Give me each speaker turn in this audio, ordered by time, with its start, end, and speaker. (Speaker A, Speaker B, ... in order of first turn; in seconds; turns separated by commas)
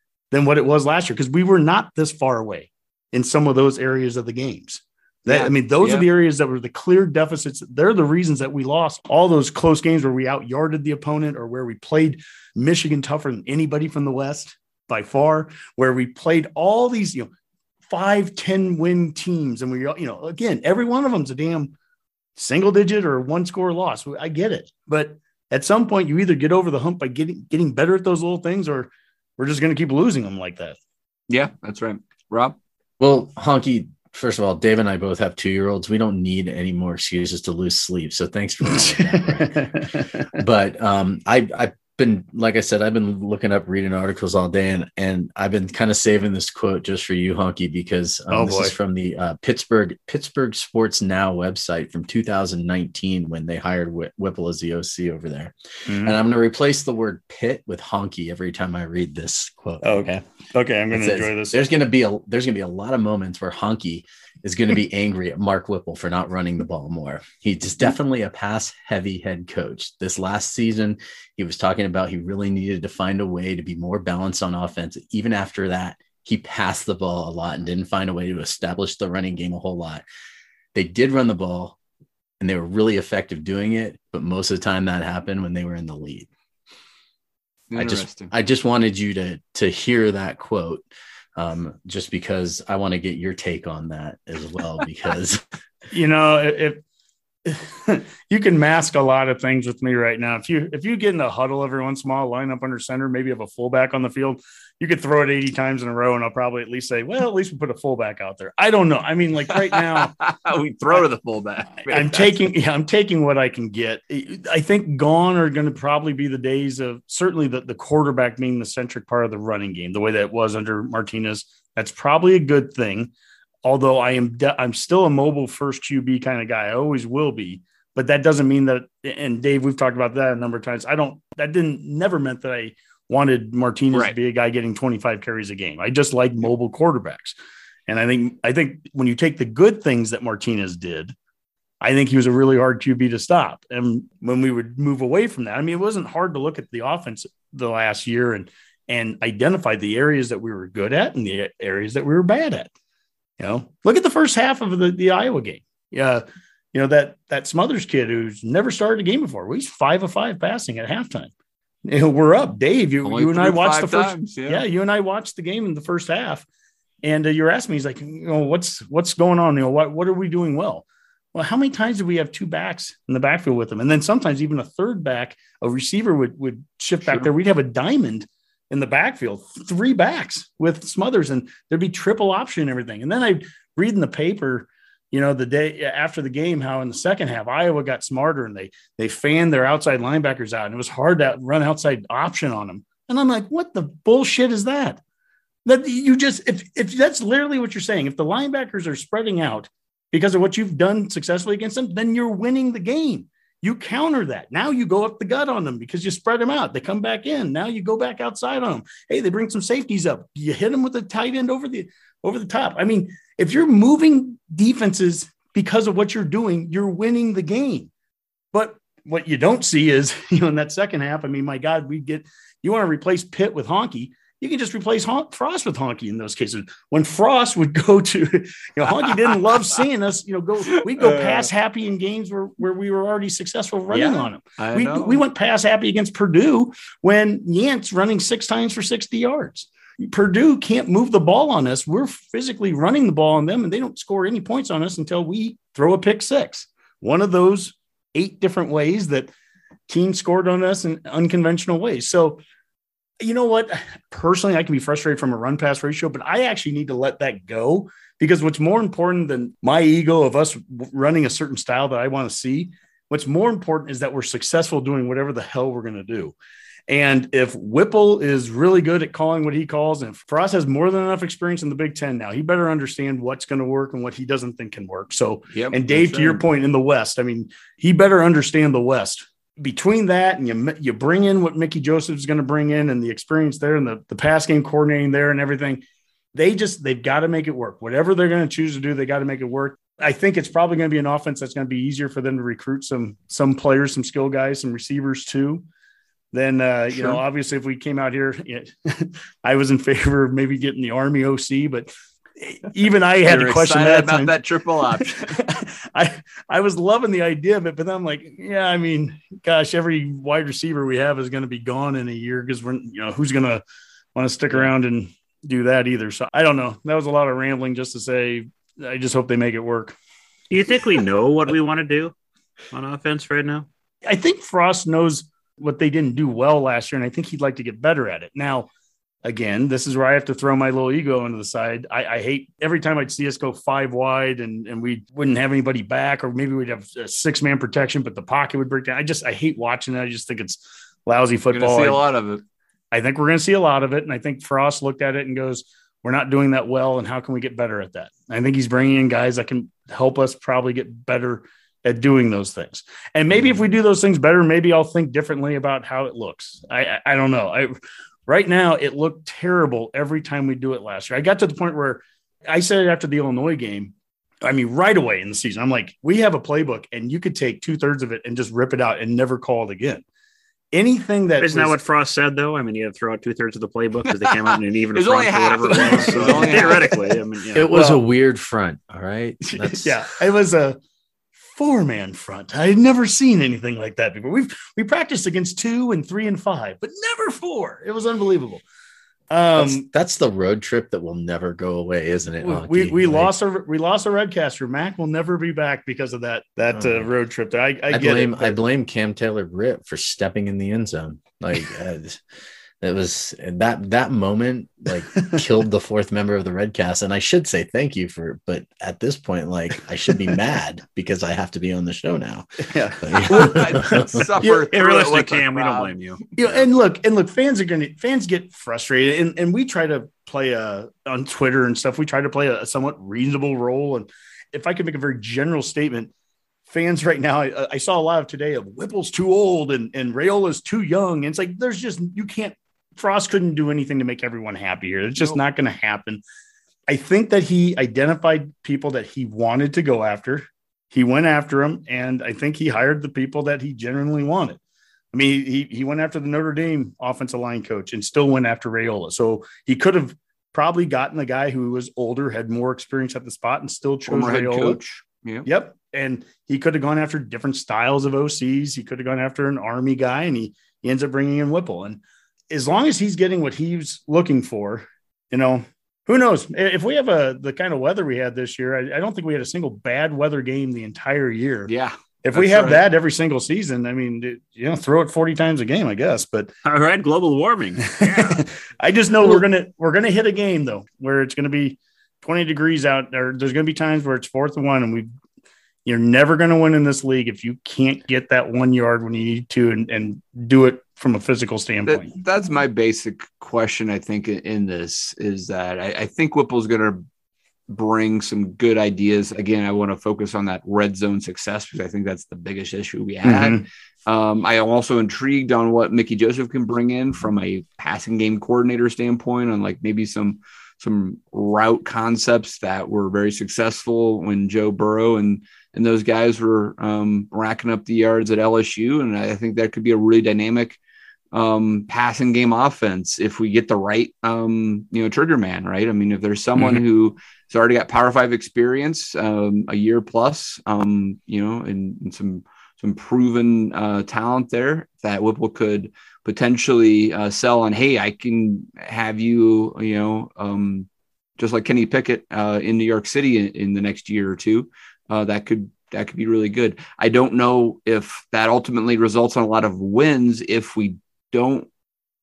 Speaker A: 0.3-17.3, Speaker B: 5.3-6.0, Speaker A: 17.9-21.7, Speaker A: 22.4-30.8, Speaker B: 31.3-32.5, Speaker C: 33.0-60.1, Speaker A: 38.8-40.2, Speaker A: 48.3-48.7, Speaker A: 55.9-56.1, Speaker A: 59.8-61.6, Speaker C: 60.9-80.0, Speaker C: 80.7-81.8, Speaker C: 82.4-86.3, Speaker B: 87.7-88.3, Speaker C: 87.8-90.8, Speaker C: 91.3-95.4, Speaker A: 95.9-96.8, Speaker A: 97.5-110.1, Speaker B: 109.7-112.4, Speaker A: 111.8-123.1, Speaker A: 123.6-137.3, Speaker A: 137.9-141.1, Speaker A: 141.8-152.7, Speaker A: 153.4-161.3, Speaker A: 161.8-166.4, Speaker B: 163.0-164.6, Speaker A: 167.0-195.0, Speaker A: 195.7-217.9, Speaker A: 218.5-249.3, Speaker B: 231.0-231.5, Speaker B: 233.9-235.2, Speaker A: 249.9-252.4, Speaker A: 253.2-266.3, Speaker A: 266.9-285.8, Speaker B: 275.5-276.4, Speaker A: 286.3-295.6, Speaker A: 296.3-304.3, Speaker B: 296.9-297.2, Speaker B: 303.2-305.3, Speaker A: 304.9-313.6, Speaker A: 314.1-319.9, Speaker D: 320.5-322.1, Speaker D: 322.7-323.7, Speaker A: 324.1-328.7, Speaker A: 329.2-342.0, Speaker B: 341.5-342.4, Speaker A: 342.9-357.7, Speaker A: 358.3-370.0, Speaker A: 370.7-371.8, Speaker D: 371.4-378.0, Speaker B: 374.2-376.9, Speaker A: 376.0-376.7, Speaker C: 377.5-380.0, Speaker A: 379.6-380.8, Speaker A: 381.4-388.6, Speaker A: 389.3-389.9, Speaker C: 389.5-393.3, Speaker A: 392.4-398.6, Speaker C: 396.7-397.0, Speaker C: 397.9-402.2, Speaker C: 402.8-414.3, Speaker A: 412.7-414.6, Speaker B: 413.3-415.9, Speaker D: 414.7-416.3, Speaker A: 416.4-426.1, Speaker A: 426.7-436.2, Speaker A: 436.9-444.6, Speaker A: 445.1-454.8, Speaker B: 454.1-455.4, Speaker A: 455.4-471.7, Speaker B: 471.7-472.8, Speaker A: 472.2-476.5, Speaker D: 476.6-478.4, Speaker A: 478.0-485.1, Speaker A: 485.9-492.1, Speaker B: 491.9-497.0, Speaker B: 497.7-520.8, Speaker A: 503.2-503.6, Speaker B: 521.3-540.9, Speaker B: 541.4-551.7